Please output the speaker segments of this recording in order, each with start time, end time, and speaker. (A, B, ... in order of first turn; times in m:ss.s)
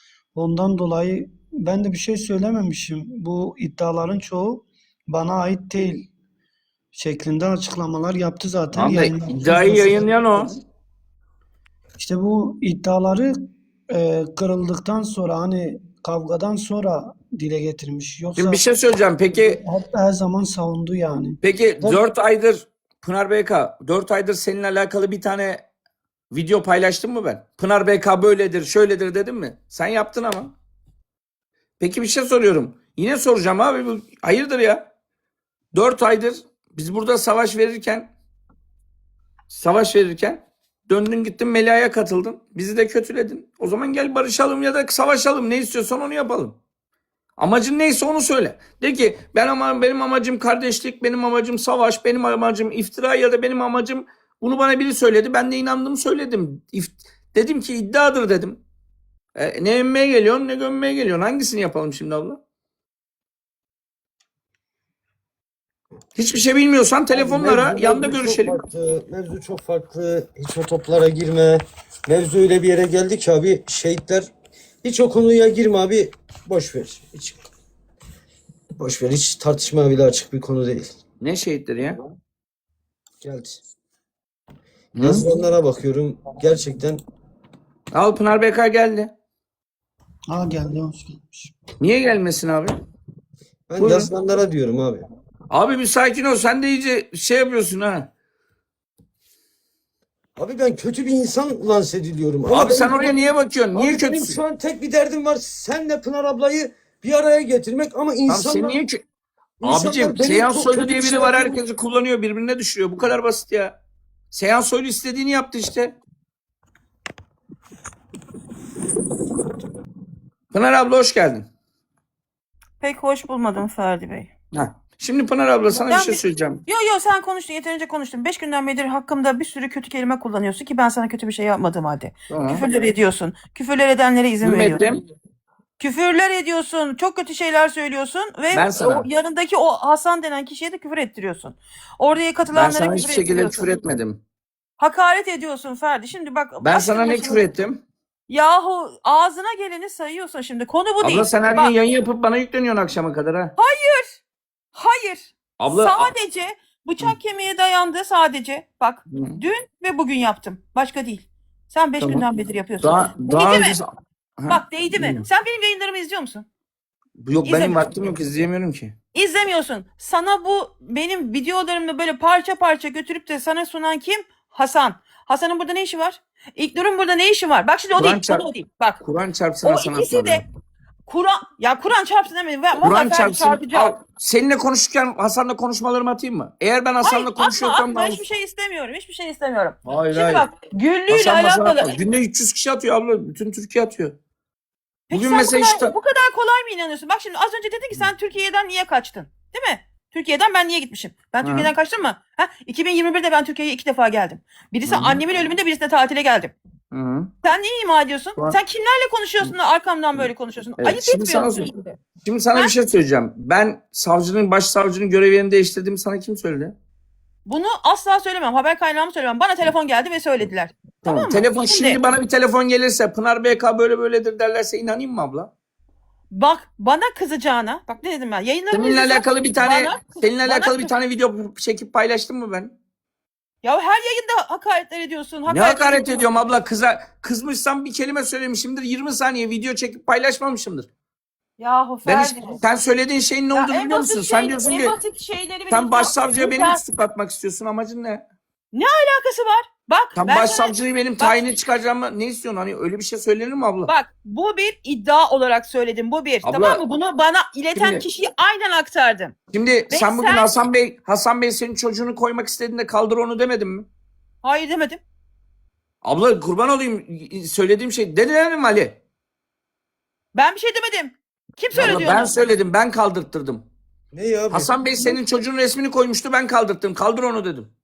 0:00.3-0:06.1 A
0:06.9-0:10.6 A
0:08.7-0:10.6 B
0:12.0-0:18.6 A
0:18.4-0:19.6 B
0:19.3-0:22.0 A
0:21.4-0:25.6 B
0:26.3-0:30.5 B
0:31.8-0:34.9 B
0:35.7-0:38.1 B
0:39.5-0:46.6 B
0:47.4-0:58.6 B
0:59.3-1:02.4 B
1:06.2-1:08.6 B
1:07.1-1:14.3 C
1:14.8-1:17.4 C
1:18.8-1:20.9 C
1:21.2-1:22.0 B
1:23.2-1:23.6 C
1:24.9-1:25.2 B
1:25.0-1:27.0 C
1:27.9-1:29.1 B
1:30.3-1:31.5 A
1:31.8-1:32.8 B
1:33.7-1:35.0 C
1:33.8-1:34.1 B
1:35.5-1:38.1 B
1:40.4-1:43.1 C
1:42.5-1:44.4 B
1:43.7-1:48.8 C
1:48.3-1:49.0 B
1:49.6-1:51.6 C
1:49.6-1:53.8 B
1:54.3-1:56.0 B
2:00.5-2:01.5 B
2:02.8-2:04.3 D
2:04.5-2:06.6 B
2:05.7-2:14.8 D
2:12.3-2:12.6 B
2:14.4-2:15.0 B
2:15.8-2:23.7 D
2:18.5-2:19.0 B
2:22.5-2:24.2 B
2:24.8-2:27.4 D
2:26.6-2:27.8 B
2:28.3-2:31.7 D
2:31.0-2:33.5 B
2:33.6-2:34.2 D
2:34.7-2:43.8 D
2:35.6-2:36.1 B
2:39.1-2:39.4 B
2:42.8-2:45.2 B
2:44.5-2:46.4 D
2:47.2-2:48.9 B
2:47.4-2:47.8 D
2:49.1-2:59.0 D
2:58.0-2:58.5 B
2:59.0-3:00.4 B
2:59.6-3:00.4 D
3:01.1-3:03.9 D
3:02.8-3:08.2 B
3:07.0-3:11.9 D
3:09.8-3:10.5 B
3:11.1-3:14.2 B
3:15.1-3:26.5 D
3:15.1-3:15.9 B
3:21.4-3:21.7 B
3:24.8-3:25.2 B
3:26.9-3:27.3 B
3:27.4-3:32.0 D
3:30.8-3:31.7 B
3:32.2-3:36.7 B
3:37.4-3:42.0 D
3:41.0-3:45.5 B
3:46.3-3:50.9 D
3:48.7-3:52.7 B
3:53.6-3:56.3 D
3:55.5-4:00.9 B
4:01.6-4:02.6 D
4:02.0-4:05.0 B
4:03.5-4:06.8 D
4:05.7-4:08.2 B
4:08.7-4:11.5 D
4:10.2-4:13.9 B
4:13.9-4:19.3 D
4:16.4-4:16.8 B
4:17.7-4:18.0 B
4:19.5-4:23.9 B
4:19.9-4:20.5 D
4:24.4-4:25.0 D
4:26.0-4:29.0 B
4:30.3-4:32.3 D
4:31.7-4:33.6 B
4:34.1-4:35.2 C
4:34.5-4:37.7 B